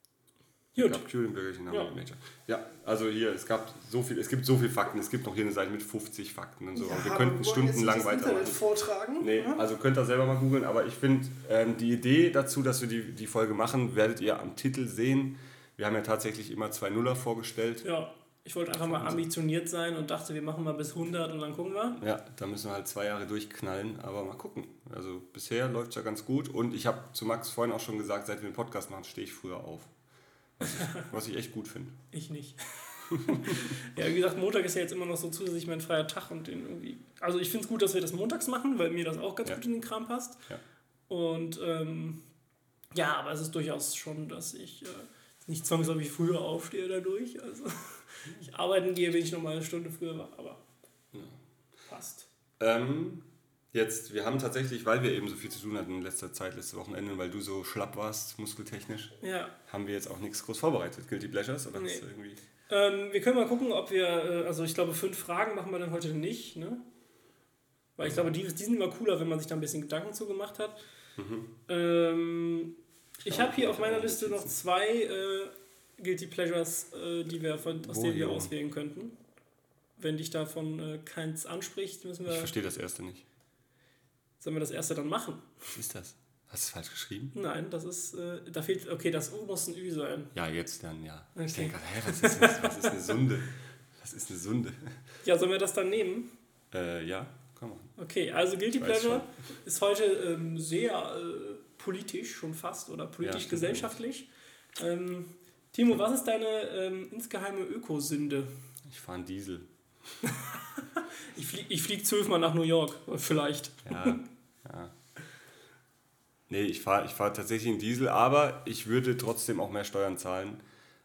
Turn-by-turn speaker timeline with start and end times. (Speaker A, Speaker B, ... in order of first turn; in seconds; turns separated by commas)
Speaker A: 0.7-1.0, Speaker B: 0.8-8.6, Speaker A: 1.7-1.9, Speaker A: 6.7-9.6, Speaker B: 9.2-17.8, Speaker A: 17.8-22.0, Speaker B: 18.8-19.2, Speaker B: 22.0-29.9, Speaker B: 30.6-32.0, Speaker A: 30.6-31.1, Speaker A: 32.1-40.4, Speaker B: 33.1-33.8, Speaker A: 41.1-42.2, Speaker A: 42.9-50.6, Speaker B: 51.1-51.4, Speaker A: 51.9-52.3, Speaker B: 52.6-62.4, Speaker A: 59.2-59.5, Speaker A: 61.8-62.0, Speaker A: 62.7-66.8, Speaker A: 68.0-70.8, Speaker B: 71.2-71.5, Speaker A: 71.7-79.1, Speaker B: 73.2-74.5, Speaker B: 77.8-78.5, Speaker A: 80.0-82.5, Speaker B: 82.3-83.2, Speaker A: 84.4-85.5, Speaker B: 85.7-87.3, Speaker A: 87.3-90.3, Speaker B: 90.3-95.0, Speaker A: 91.3-92.9, Speaker A: 95.2-96.3, Speaker B: 96.7-97.9, Speaker A: 98.0-108.5, Speaker B: 98.8-99.3, Speaker B: 103.2-103.9, Speaker B: 108.8-109.7, Speaker A: 110.2-114.2, Speaker B: 113.8-114.9, Speaker B: 116.5-120.6